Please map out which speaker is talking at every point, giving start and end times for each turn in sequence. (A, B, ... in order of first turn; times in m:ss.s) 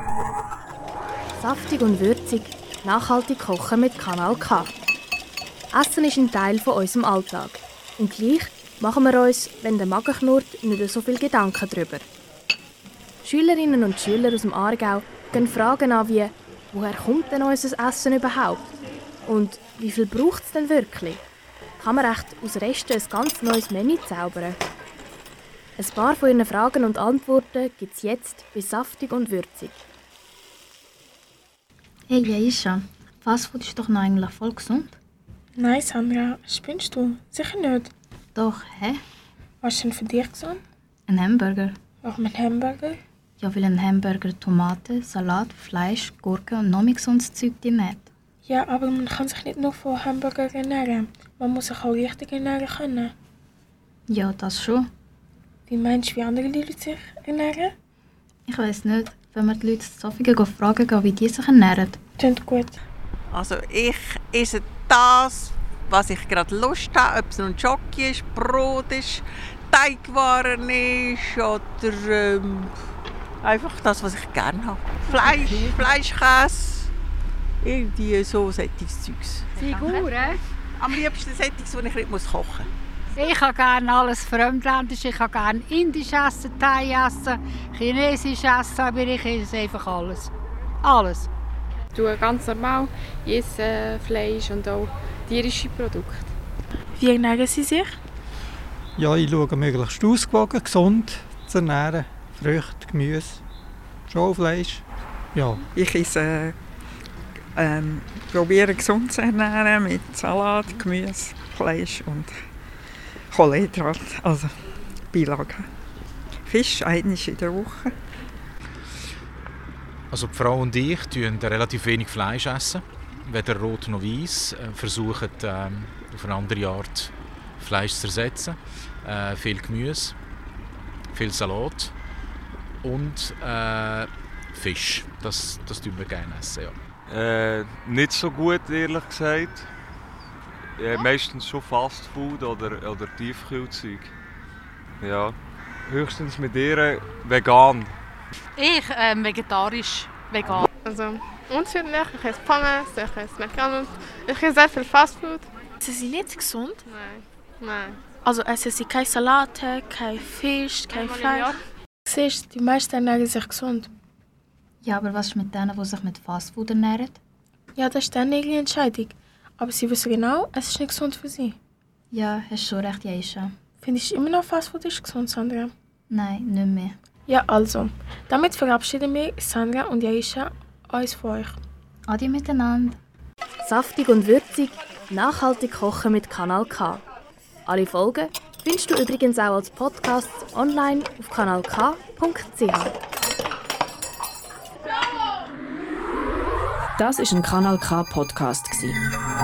0:01.4-0:04.7 A
0:05.7-0:12.0 A
0:13.2-0:18.7 A
0:19.2-0:21.2 A
0:21.8-0:24.6 A
0:25.8-0:29.8 A
0:32.1-0:35.0 B
0:35.6-0:37.9 C
0:38.3-0:39.0 B
0:39.6-0:40.6 C
0:41.1-0:41.8 B
0:42.0-0:43.0 C
0:43.4-0:48.1 B
0:48.4-0:53.1 C
0:54.1-0:54.9 B
0:55.7-0:57.7 C
0:58.5-1:02.0 B
1:02.2-1:02.8 C
1:03.3-1:12.8 D
1:13.4-1:16.9 D
1:17.6-1:19.9 D
1:19.7-1:20.3 E
1:20.8-1:22.7 D
1:23.3-1:30.3 F
1:30.9-1:31.3 F
1:31.9-1:36.2 G
1:37.0-1:38.0 C
1:39.0-1:43.4 H
1:44.1-1:44.8 H
1:45.3-1:45.6 H
1:45.7-1:46.6 I
1:47.6-1:52.4 I
1:53.3-1:54.5 I
1:55.1-1:55.7 I
1:56.5-1:57.9 I
2:00.1-2:10.1 J
2:11.1-2:11.9 J
2:12.8-2:16.8 J
2:17.1-2:19.7 K
2:20.8-2:24.1 K
2:25.0-2:25.4 K
2:25.9-2:27.9 K
2:28.6-2:30.6 E
2:29.4-2:30.0 F
2:30.8-2:35.5 G
2:35.8-2:36.8 C
2:36.8-2:38.2 G
2:38.2-2:41.4 C
2:40.9-2:41.6 G
2:42.1-2:43.9 C
2:44.8-2:47.2 B
2:47.8-2:51.6 C
2:52.1-2:53.5 B
2:53.8-2:55.7 C
2:56.1-2:57.0 B
2:57.3-3:01.6 C
3:02.1-3:03.0 B
3:03.6-3:07.0 A
3:07.7-3:12.9 A
3:17.0-3:19.0 L